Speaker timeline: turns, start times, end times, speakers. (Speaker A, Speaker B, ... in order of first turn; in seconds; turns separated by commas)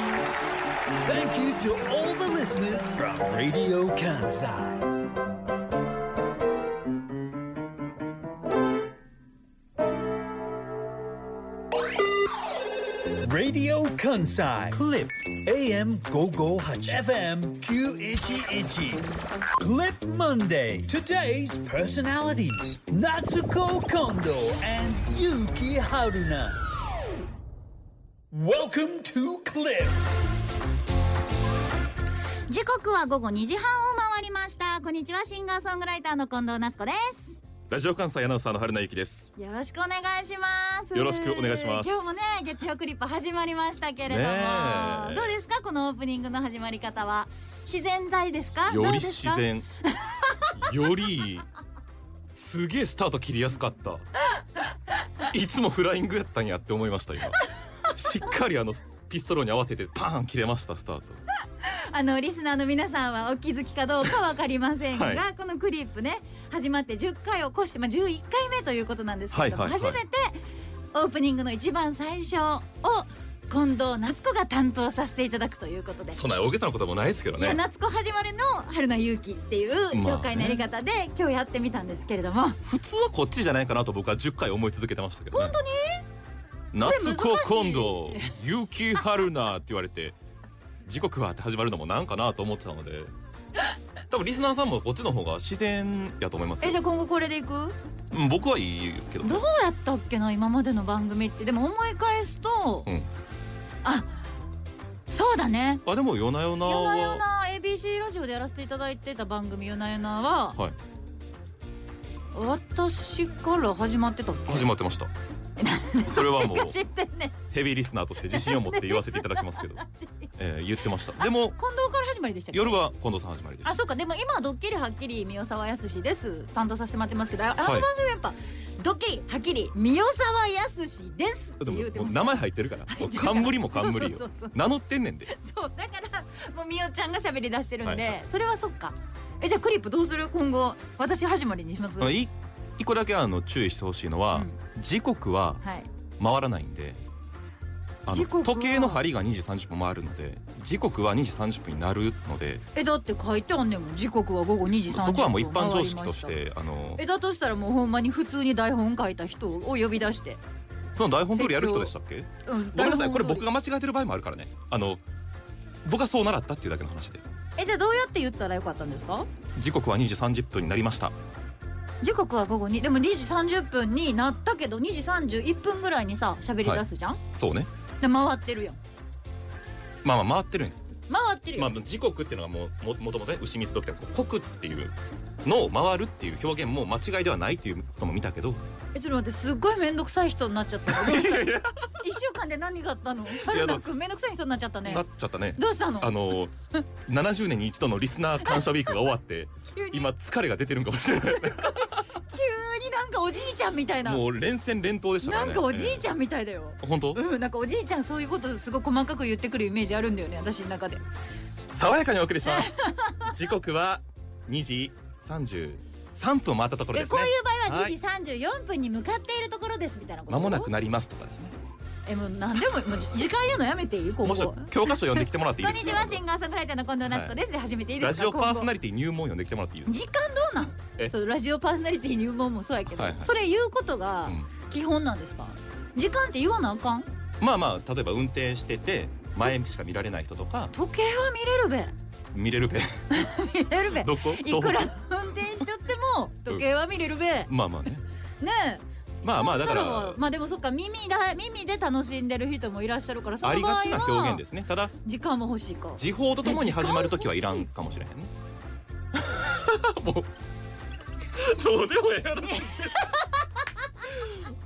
Speaker A: 1.0-4.9, Speaker A: 13.2-26.6, Speaker A: 28.3-30.1, Speaker B: 32.5-37.4, Speaker C: 37.7-39.3, Speaker B: 39.4-50.5, Speaker C: 40.9-42.2, Speaker C: 44.1-45.4, Speaker C: 48.7-49.7, Speaker C: 50.5-51.5, Speaker C: 52.3-54.1, Speaker C: 55.2-61.2, Speaker B: 61.5-76.2, Speaker C: 64.9-65.2, Speaker C: 69.3-70.0, Speaker C: 76.1-77.6, Speaker B: 77.4-82.6, Speaker C: 79.9-80.7, Speaker C: 82.7-85.6, Speaker B: 85.3-86.0, Speaker C: 86.7-90.2, Speaker B: 86.8-88.3, Speaker C: 90.8-93.1, Speaker C: 94.1-96.8, Speaker B: 96.6-97.8, Speaker C: 98.1-99.5, Speaker B: 99.2-102.9, Speaker B: 103.8-104.2, Speaker B: 105.1-105.8, Speaker C: 105.9-107.2, Speaker B: 106.6-110.6, Speaker B: 112.3-114.7, Speaker C: 114.5-115.1, Speaker B: 115.6-117.4, Speaker C: 116.0-116.8, Speaker C: 117.5-119.8, Speaker B: 118.3-120.3, Speaker C: 120.3-121.6, Speaker B: 121.2-122.8, Speaker C: 122.5-123.8, Speaker B: 123.6-134.7, Speaker C: 127.6-127.9, Speaker C: 131.6-135.3, Speaker B: 135.3-142.2, Speaker C: 137.8-138.2, Speaker C: 142.0-145.6, Speaker B: 145.6-145.9, Speaker C: 146.2-147.0, Speaker C: 148.1-152.6, Speaker B: 148.1-149.0, Speaker B: 152.7-156.4, Speaker C: 154.9-157.0, Speaker B: 157.0-160.4, Speaker C: 161.0-165.0, Speaker B: 161.3-161.9, Speaker B: 162.4-163.5, Speaker C: 165.8-167.2, Speaker B: 167.6-169.3, Speaker C: 169.6-171.2, Speaker B: 172.0-177.2, Speaker C: 176.6-177.7, Speaker B: 178.0-178.8, Speaker C: 180.0-180.8, Speaker B: 181.1-181.7, Speaker C: 181.6-188.6, Speaker B: 188.9-196.3, Speaker C: 190.9-191.7, Speaker C: 193.3-193.9, Speaker C: 194.8-196.5, Speaker C: 197.1-201.9, Speaker B: 199.7-200.1, Speaker B: 201.3-204.2, Speaker C: 204.0-206.1, Speaker B: 205.2-211.0, Speaker C: 206.8-207.2, Speaker C: 211.7-218.0, Speaker B: 212.4-213.3, Speaker B: 216.9-220.7, Speaker C: 220.3-221.5, Speaker B: 222.1-228.7, Speaker C: 224.2-226.2, Speaker C: 227.1-227.4, Speaker C: 228.0-230.1, Speaker B: 229.9-237.1, Speaker C: 232.9-233.3, Speaker C: 237.4-240.7, Speaker B: 240.7-241.9, Speaker C: 242.3-243.1, Speaker B: 243.1-247.5, Speaker C: 243.9-244.9, Speaker C: 247.5-248.1, Speaker B: 248.4-254.4, Speaker C: 249.2-250.2, Speaker C: 253.4-254.9, Speaker B: 255.0-257.6, Speaker C: 256.0-258.3, Speaker C: 259.1-260.3, Speaker C: 261.3-263.2, Speaker B: 262.5-263.3, Speaker C: 264.1-264.5